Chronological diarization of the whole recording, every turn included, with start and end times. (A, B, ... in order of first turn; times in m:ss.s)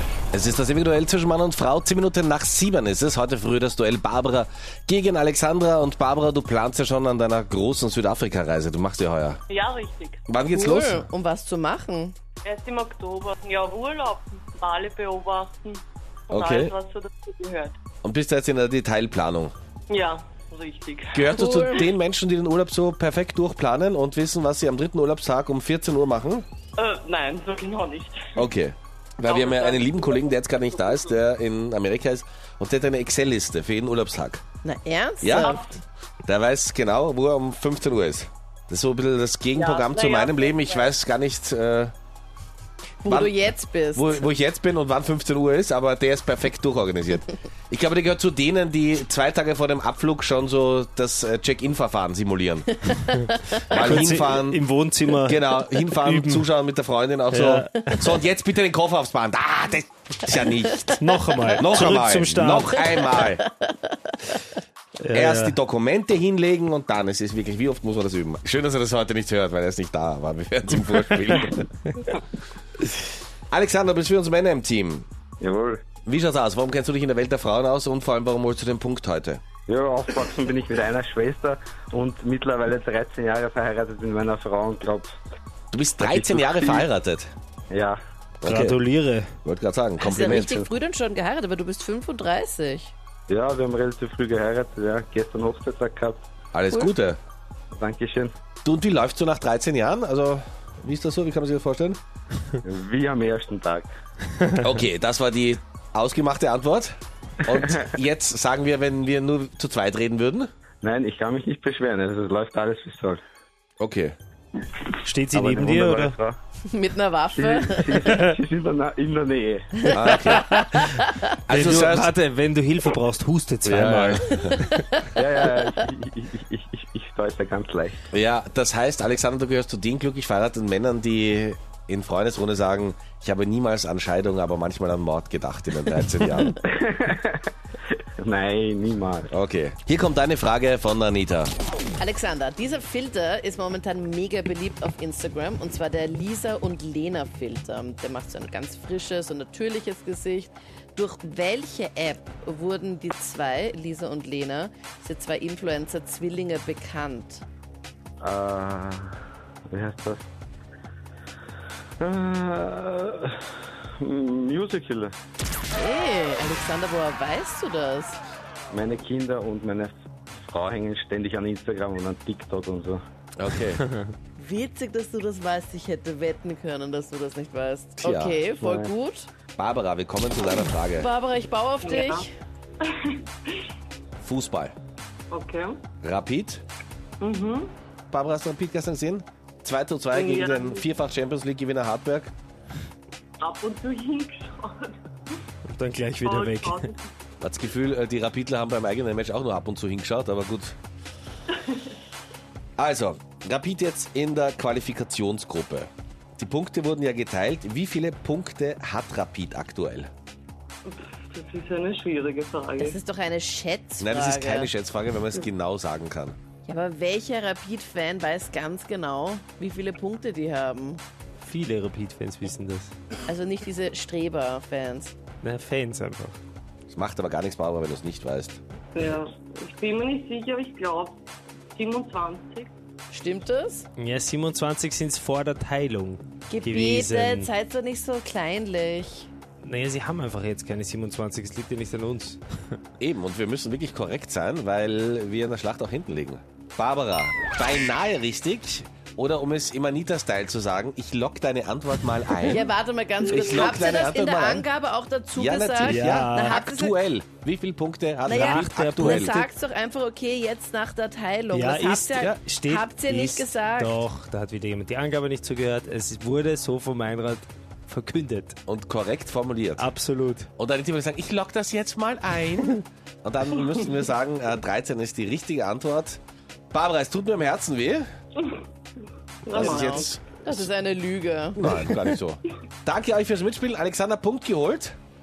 0:00.3-0:09.4 A
0:09.5-0:10.2 B
0:10.3-0:11.0 A
0:10.4-0:12.2 C
0:12.4-0:17.8 B
0:16.3-0:16.7 A
0:18.0-0:19.5 A
0:19.9-0:21.5 B
0:21.1-0:26.4 A
0:21.3-0:21.9 C
0:26.8-0:28.5 B
0:28.4-0:34.4 A
0:29.2-0:31.2 B
0:34.6-0:35.6 C
0:35.2-0:35.6 A
0:35.4-0:35.8 B
0:36.2-0:41.9 A
0:39.5-0:40.9 B
0:43.0-0:44.3 C
0:43.1-0:43.4 A
0:44.0-0:52.8 A
0:52.8-0:53.9 C
0:53.7-0:54.6 A
0:53.7-0:56.4 D
0:55.3-1:01.0 A
0:57.3-0:58.0 D
1:01.0-1:02.9 D
1:01.6-1:03.4 A
1:02.8-1:04.4 C
1:05.0-1:05.6 D
1:05.1-1:11.6 A
1:13.5-1:15.1 A
1:15.4-1:15.8 E
1:16.0-1:19.4 A
1:19.7-1:25.2 E
1:25.7-1:27.3 A
1:26.0-1:26.9 E
1:27.7-1:28.0 E
1:28.4-1:28.8 A
1:28.4-1:29.3 D
1:29.4-1:30.6 A
1:30.0-1:32.9 C
1:30.1-1:30.7 E
1:33.3-1:36.2 E
1:36.5-1:37.2 A
1:37.7-1:38.3 E
1:38.6-1:42.0 A
1:42.6-1:43.9 E
1:44.6-1:50.5 A
1:50.8-1:53.2 E
1:53.8-1:54.2 A
1:55.0-1:56.2 D
1:55.3-1:56.4 E
1:56.7-1:58.2 C
1:57.4-1:59.9 E
1:58.0-1:58.3 D
1:59.9-2:01.2 C
1:59.9-2:00.5 A
2:00.2-2:04.8 D
2:01.5-2:02.1 A
2:03.6-2:04.6 A
2:05.2-2:08.0 E
2:08.1-2:16.6 A
2:16.6-2:17.4 E
2:18.2-2:19.3 E
2:19.3-2:21.5 A
2:22.0-2:37.5 C
2:38.2-2:39.1 E
2:39.7-2:40.2 E
2:42.0-2:43.4 E
2:44.0-2:45.1 E
2:45.7-2:48.2 C
2:48.7-2:53.0 E
2:53.4-2:53.8 A
2:54.4-2:59.3 C
2:58.0-2:58.4 A
2:58.6-2:58.9 E
2:59.6-3:01.1 A
3:00.9-3:02.3 C
3:01.8-3:02.3 B
3:02.8-3:03.5 B
3:04.2-3:04.8 A
3:05.3-3:05.8 B
3:06.0-3:06.6 A
3:07.2-3:07.8 B
3:08.1-3:12.3 A
3:10.1-3:10.9 B
3:13.4-3:15.4 B
3:15.7-3:16.9 D
3:16.2-3:17.1 B
3:17.4-3:20.8 A
3:21.5-3:21.9 B
3:22.8-3:30.1 A
3:30.9-3:33.0 B
3:32.8-3:34.7 C
3:34.0-3:36.4 A
3:36.6-3:41.0 C
3:41.4-3:42.9 D
3:43.3-3:45.2 C
3:45.4-3:46.4 D
3:46.9-3:48.6 A
3:49.0-3:51.2 B
3:51.8-3:52.7 B
3:53.1-3:53.9 C
3:54.0-3:57.5 D
3:56.5-3:59.3 C
3:59.6-4:02.4 D
4:03.0-4:12.7 A
4:12.5-4:17.0 C
4:13.2-4:14.7 A
4:15.4-4:19.4 A
4:15.8-4:16.6 D
4:18.2-4:24.0 C
4:18.3-4:19.5 D
4:21.5-4:28.6 D
4:28.7-4:29.9 A
4:29.8-4:30.5 D
4:30.6-4:36.2 A
4:36.7-4:38.1 A
4:39.4-4:40.1 B
4:39.5-4:40.7 A
4:39.7-4:41.7 C
4:41.6-4:45.0 A